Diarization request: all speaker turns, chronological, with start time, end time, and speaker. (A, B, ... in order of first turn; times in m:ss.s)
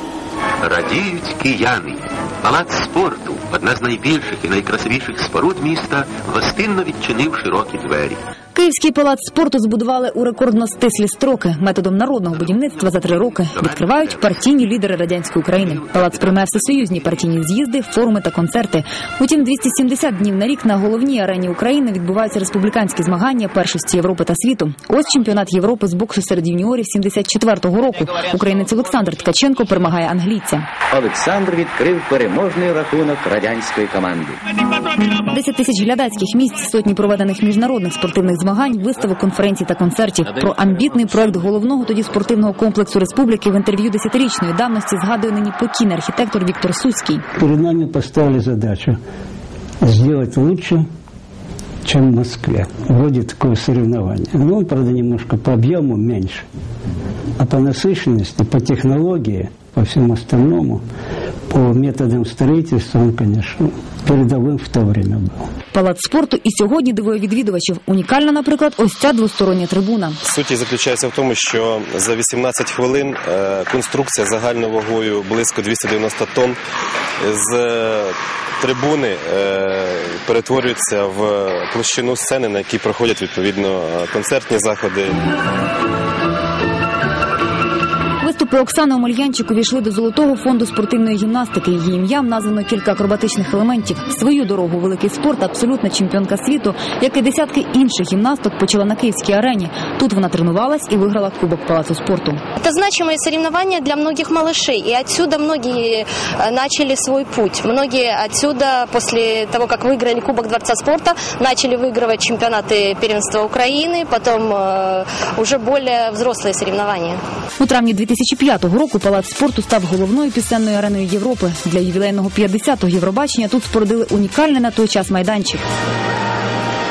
0:00.6-0:08.2 A
0:08.5-0:30.6 B
0:12.3-0:14.4 A
0:15.6-0:17.0 A
0:30.9-0:34.4 C
0:35.0-0:47.2 B
0:47.4-0:49.0 D
0:49.8-0:50.8 D
0:51.8-0:56.4 D
0:57.4-1:00.8 D
1:01.5-1:05.4 D
1:05.7-1:10.2 B
1:10.2-1:16.6 E
1:17.2-1:25.2 E
1:28.2-1:42.4 B
1:42.6-1:57.2 F
1:57.6-2:05.6 B